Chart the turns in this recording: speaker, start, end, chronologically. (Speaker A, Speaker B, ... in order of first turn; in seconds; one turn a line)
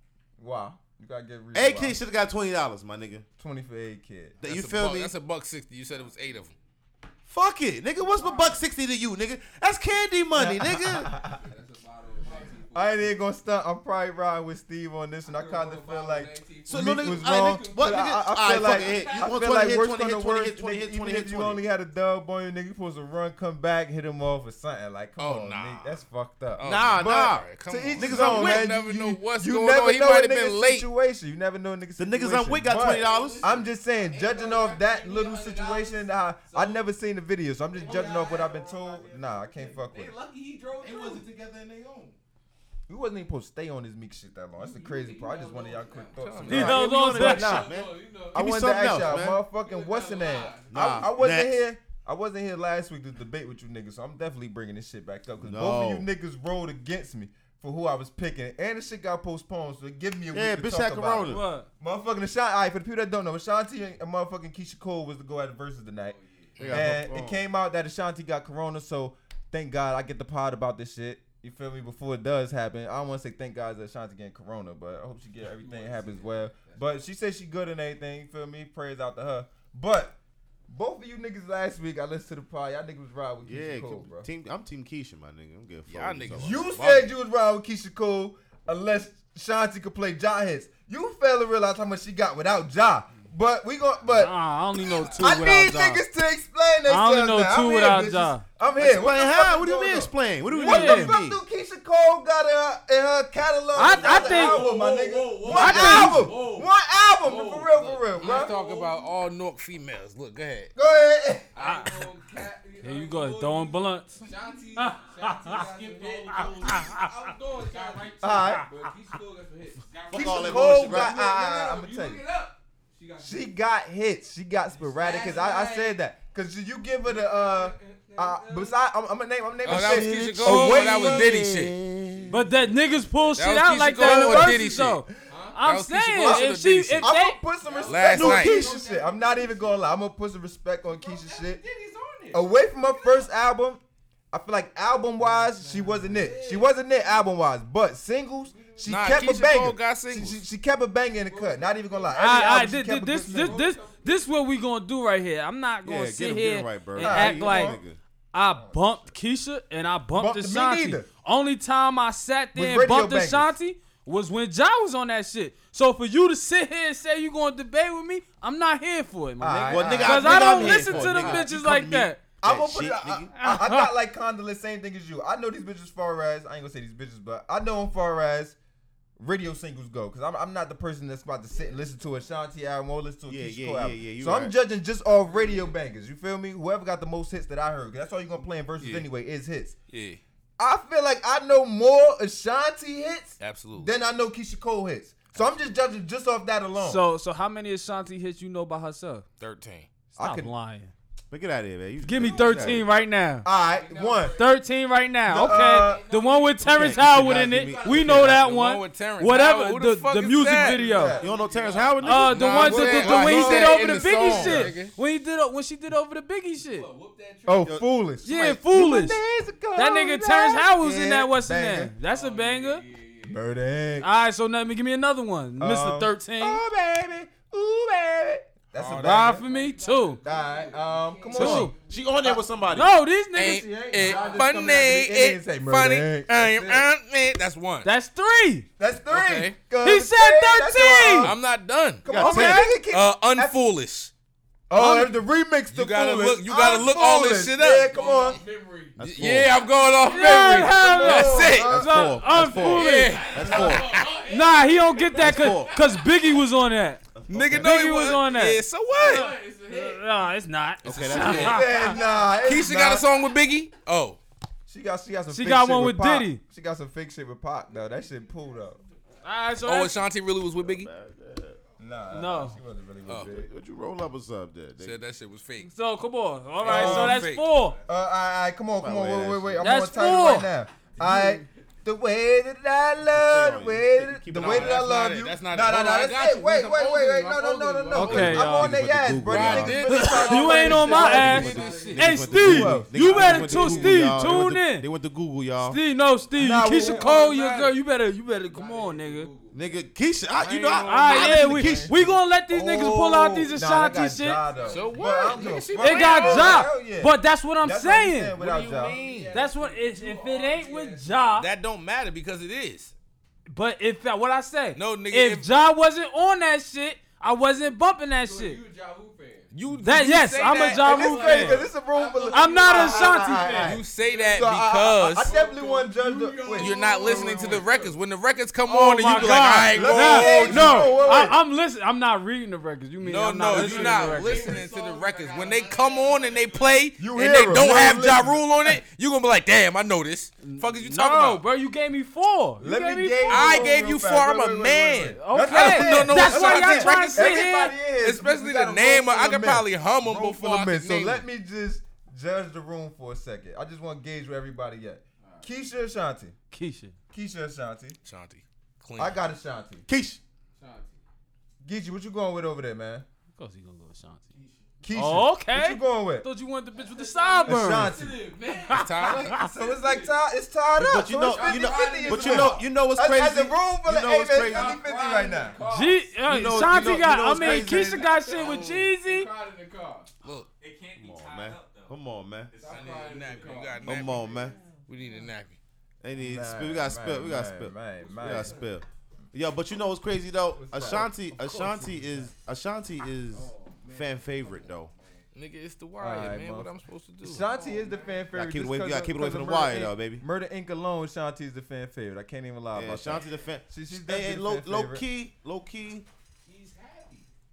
Speaker A: 0.4-2.0
Speaker B: 1.5-3.3
Speaker A: 3.4-4.4
Speaker B: 4.4-5.1
Speaker C: 4.4-6.5
Speaker B: 7.3-11.1
Speaker D: 8.0-8.6
Speaker A: 10.3-11.4
Speaker D: 11.1-13.1
Speaker A: 12.7-40.2
Speaker D: 15.2-19.6
Speaker B: 16.7-21.6
Speaker C: 25.2-26.0
Speaker C: 26.6-30.9
Speaker B: 26.6-28.7
Speaker B: 32.0-33.4
Speaker D: 32.7-36.8
Speaker D: 37.7-42.2
Speaker A: 42.9-47.8
Speaker D: 44.6-51.1
Speaker C: 46.2-46.8
Speaker E: 46.5-47.7
Speaker B: 46.7-49.4
Speaker A: 48.3-66.2
Speaker B: 50.7-51.6
Speaker B: 55.4-56.1
Speaker B: 60.3-61.4
Speaker E: 61.2-61.7
Speaker D: 66.0-66.6
Speaker C: 66.6-66.9
Speaker B: 66.6-67.4
Speaker A: 66.7-80.2
Speaker D: 75.5-77.0
Speaker A: 80.7-84.3
Speaker B: 83.4-86.7
Speaker C: 85.9-87.1
Speaker A: 86.3-94.4
Speaker E: 94.1-96.0
Speaker D: 94.7-95.4
Speaker A: 95.1-108.5
Speaker E: 96.9-98.4
Speaker B: 98.8-101.4
Speaker E: 100.5-101.2
Speaker E: 103.7-104.8
Speaker D: 103.8-109.1
Speaker E: 105.5-106.3
Speaker C: 108.2-110.7
Speaker A: 110.8-111.5
Speaker D: 111.5-123.5
Speaker E: 111.6-111.9
Speaker E: 112.8-114.2
Speaker E: 114.8-117.1
Speaker E: 117.8-118.7
Speaker F: 117.8-118.0
Speaker A: 118.2-118.7
Speaker B: 120.1-121.2
Speaker A: 120.1-122.2
Speaker A: 123.2-131.3
Speaker D: 124.7-126.0
Speaker D: 127.0-128.8
Speaker C: 129.6-131.8
Speaker B: 129.7-132.4
Speaker D: 132.1-133.4
Speaker E: 132.3-137.4
Speaker C: 133.4-135.0
Speaker A: 134.0-134.6
Speaker D: 135.3-135.6
Speaker C: 135.6-137.1
Speaker A: 136.2-136.5
Speaker A: 137.0-141.6
Speaker D: 137.6-139.8
Speaker C: 137.8-138.6
Speaker B: 138.1-138.8
Speaker D: 140.8-143.3
Speaker A: 142.3-153.6
Speaker D: 145.2-147.2
Speaker D: 148.5-149.3
Speaker C: 148.9-150.4
Speaker D: 151.2-152.5
Speaker E: 152.1-157.8
Speaker D: 153.2-154.3
Speaker B: 155.8-158.0
Speaker A: 157.0-157.8
Speaker E: 158.3-172.2
Speaker A: 158.5-158.8
Speaker A: 160.2-161.1
Speaker A: 162.6-163.5
Speaker A: 169.4-171.5
Speaker B: 169.7-173.3
Speaker A: 172.4-178.6
Speaker E: 173.3-173.9
Speaker A: 179.2-189.8
Speaker D: 181.6-181.9
Speaker B: 183.3-184.6
Speaker D: 185.3-185.7
Speaker C: 188.8-189.1
Speaker C: 189.9-190.2
Speaker A: 190.6-197.0
Speaker C: 193.4-193.9
Speaker C: 195.4-195.7
Speaker E: 196.8-199.2
Speaker C: 199.4-199.9
Speaker E: 200.2-200.9
Speaker A: 200.2-200.5
Speaker B: 201.3-202.8
Speaker E: 202.0-203.5
Speaker A: 202.3-202.8
Speaker A: 203.4-204.4
Speaker D: 203.5-204.6
Speaker E: 204.4-211.2
Speaker A: 205.3-206.0
Speaker D: 205.3-208.3
Speaker B: 206.6-208.4
Speaker C: 208.2-210.8
Speaker A: 210.7-211.3
Speaker D: 210.9-212.3
Speaker B: 211.2-213.0
Speaker E: 212.0-216.9
Speaker C: 212.3-214.9
Speaker A: 212.6-214.7
Speaker D: 216.6-217.8
Speaker A: 217.5-221.9
Speaker E: 218.2-219.2
Speaker E: 219.8-222.8
Speaker D: 222.1-223.4
Speaker A: 223.3-224.1
Speaker E: 224.0-226.6
Speaker A: 225.6-229.4
Speaker C: 228.8-229.2
Speaker E: 229.0-230.2
Speaker D: 229.2-232.2
Speaker A: 230.2-232.4
Speaker E: 231.3-231.7
Speaker B: 231.4-232.9
Speaker E: 232.7-233.7
Speaker C: 233.3-237.9
Speaker A: 233.4-236.9
Speaker D: 233.9-234.8
Speaker E: 237.8-238.7
Speaker A: 238.8-241.4
Speaker C: 239.1-239.6
Speaker E: 239.8-241.3
Speaker C: 241.2-242.1
Speaker A: 242.1-243.6
Speaker B: 242.1-242.7
Speaker E: 242.1-242.8
Speaker C: 242.9-244.1
Speaker A: 244.7-248.4
Speaker E: 244.8-245.1
Speaker C: 245.7-248.3
Speaker D: 247.8-249.0
Speaker B: 249.0-249.6
Speaker C: 249.0-251.8
Speaker D: 249.5-250.7
Speaker E: 250.1-253.3
Speaker A: 250.3-252.2
Speaker B: 251.6-254.0
Speaker D: 252.5-256.3
Speaker C: 252.6-254.2
Speaker E: 254.2-257.0
Speaker B: 255.2-255.8
Speaker B: 257.1-257.7
Speaker C: 257.3-259.3
Speaker E: 257.5-262.0
Speaker D: 258.9-260.0
Speaker B: 260.8-261.7
Speaker C: 260.9-261.7
Speaker A: 261.4-263.1
Speaker D: 261.8-262.3
Speaker C: 262.4-264.2
Speaker A: 264.7-268.8
Speaker E: 265.3-266.4
Speaker D: 267.8-268.4
Speaker E: 269.2-270.0
Speaker C: 269.6-270.9
Speaker B: 270.6-271.6
Speaker A: 271.8-273.5
Speaker E: 272.1-272.6
Speaker C: 273.1-273.4
Speaker B: 273.3-275.0
Speaker C: 274.8-275.7
Speaker E: 275.6-277.8
Speaker C: 276.6-277.5
Speaker A: 276.6-277.3
Speaker A: 277.9-291.7
Speaker B: 278.8-279.8
Speaker E: 279.6-280.5
Speaker E: 281.0-281.4
Speaker B: 283.1-284.8
Speaker C: 284.3-288.7
Speaker E: 287.9-288.8
Speaker B: 288.1-289.9
Speaker C: 289.2-292.0
Speaker E: 289.9-294.9
Speaker D: 290.6-292.4
Speaker B: 291.1-295.8
Speaker A: 292.3-293.8
Speaker D: 293.0-294.1
Speaker E: 295.6-299.3
Speaker A: 296.4-297.2
Speaker D: 296.7-297.8
Speaker D: 298.5-299.6
Speaker B: 299.5-302.2
Speaker C: 300.4-301.5
Speaker E: 300.8-304.4
Speaker A: 301.1-302.0
Speaker A: 302.5-309.1
Speaker D: 304.4-305.7
Speaker C: 304.7-306.7
Speaker E: 305.8-308.4
Speaker C: 308.4-309.4
Speaker D: 308.6-311.2
Speaker E: 309.3-311.5
Speaker C: 311.4-312.9
Speaker E: 313.5-318.6
Speaker C: 314.8-315.5
Speaker D: 318.2-319.5
Speaker C: 319.5-321.2
Speaker E: 319.8-321.7
Speaker D: 320.8-328.0
Speaker A: 320.8-327.6
Speaker E: 322.3-323.8
Speaker C: 323.6-325.3
Speaker C: 326.6-331.0
Speaker E: 328.7-334.6
Speaker D: 329.0-331.3
Speaker A: 329.7-331.4
Speaker C: 333.0-341.4
Speaker D: 333.5-336.9
Speaker A: 337.0-338.8
Speaker E: 340.4-343.8
Speaker A: 342.6-356.4
Speaker C: 343.3-351.2
Speaker E: 345.2-347.8
Speaker D: 355.2-355.5
Speaker E: 356.5-356.9
Speaker A: 357.1-358.0
Speaker C: 358.1-359.2
Speaker A: 359.0-359.9
Speaker B: 359.9-360.2
Speaker D: 360.6-361.0
Speaker A: 361.6-363.1
Speaker E: 363.4-364.3
Speaker D: 364.4-364.6
Speaker A: 364.8-366.3
Speaker E: 364.9-368.0
Speaker D: 366.8-370.2
Speaker A: 367.5-368.3
Speaker E: 368.7-369.5
Speaker C: 368.7-369.4
Speaker A: 369.4-375.6
Speaker B: 370.8-374.8
Speaker D: 371.3-372.7
Speaker D: 374.4-380.1
Speaker E: 375.6-379.3
Speaker B: 376.3-378.1
Speaker C: 378.2-378.9
Speaker C: 380.2-380.5
Speaker F: 380.6-381.9
Speaker B: 381.0-382.6
Speaker D: 381.2-381.6
Speaker D: 382.5-384.6
Speaker C: 382.6-385.6
Speaker F: 382.6-383.4
Speaker B: 383.8-384.6
Speaker B: 386.0-394.9
Speaker A: 386.2-388.6
Speaker D: 388.0-388.7
Speaker A: 390.6-392.3
Speaker D: 393.3-395.3
Speaker C: 395.3-397.4
Speaker A: 396.0-396.7
Speaker A: 397.2-405.1
Speaker D: 397.4-398.3
Speaker B: 398.3-400.2
Speaker B: 402.7-406.1
Speaker D: 406.4-407.3